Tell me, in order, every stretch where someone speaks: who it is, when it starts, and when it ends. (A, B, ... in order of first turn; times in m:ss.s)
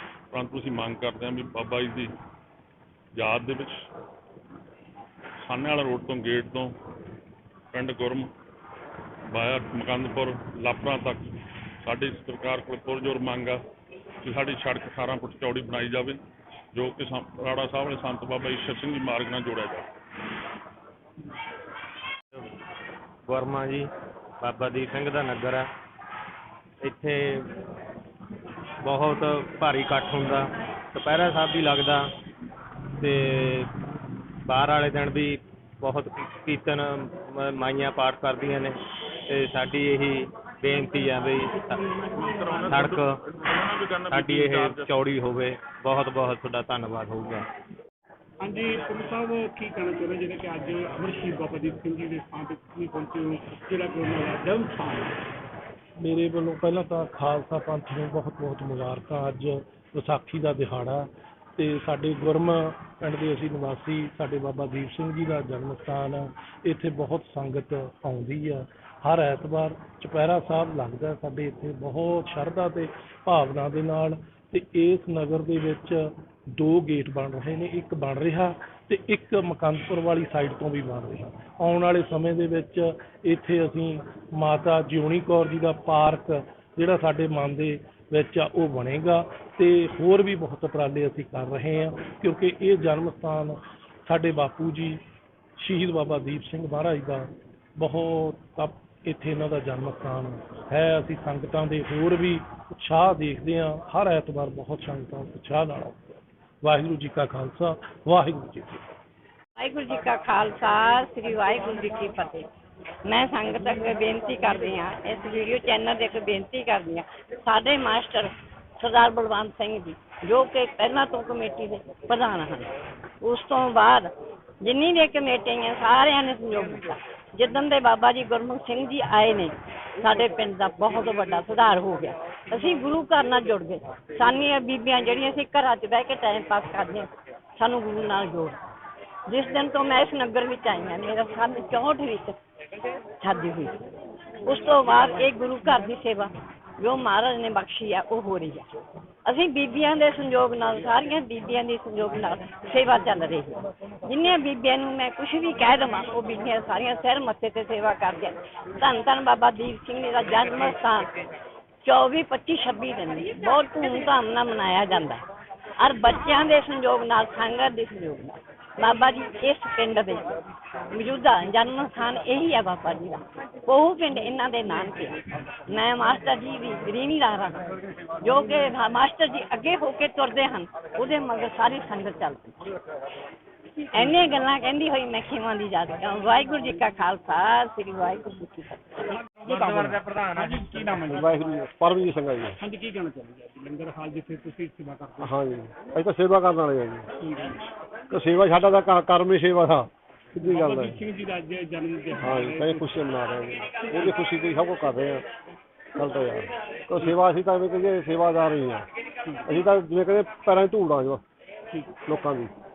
0:00.3-0:02.1 A
0:03.2-0:03.9 A
0:05.4-0:06.8 A
0:07.7-0:08.3 A
0:09.3-0:11.3 A
0:11.8-0:13.6 A
0:14.2-0:16.2 A
0:16.7-0:19.9 A
0:23.3-0:23.9 B
0:24.4-0:25.7 B
0:26.8-0:27.5 B
0:28.8-0:32.1 B
0:33.0-0:33.7 B
0:34.5-0:38.8 B
0:39.3-0:41.8 B
0:42.1-0:44.9 A
0:42.6-0:43.2 B
0:44.1-0:47.4 B
0:48.4-0:55.1 C
0:56.0-1:35.0 D
1:35.6-1:48.8 D
1:49.6-1:52.4 E
1:53.0-2:02.7 E
2:03.2-2:04.1 E
2:04.6-2:18.6 E
2:19.3-2:22.3 E
2:23.2-2:23.7 E
2:24.4-2:28.6 E
2:29.2-2:41.1 E
2:41.8-2:45.2 E
2:45.8-2:50.3 E
2:50.9-3:02.7 E
3:03.9-3:08.8 E
3:09.2-3:11.5 C
3:11.0-3:12.6 F
3:12.6-3:15.4 C
3:15.2-3:17.1 F
3:17.2-3:17.6 C
3:18.1-3:21.0 F
3:20.4-3:23.2 C
3:22.2-3:25.2 F
3:23.8-3:24.2 C
3:26.0-3:28.8 F
3:29.4-3:31.2 F
3:32.0-3:32.5 F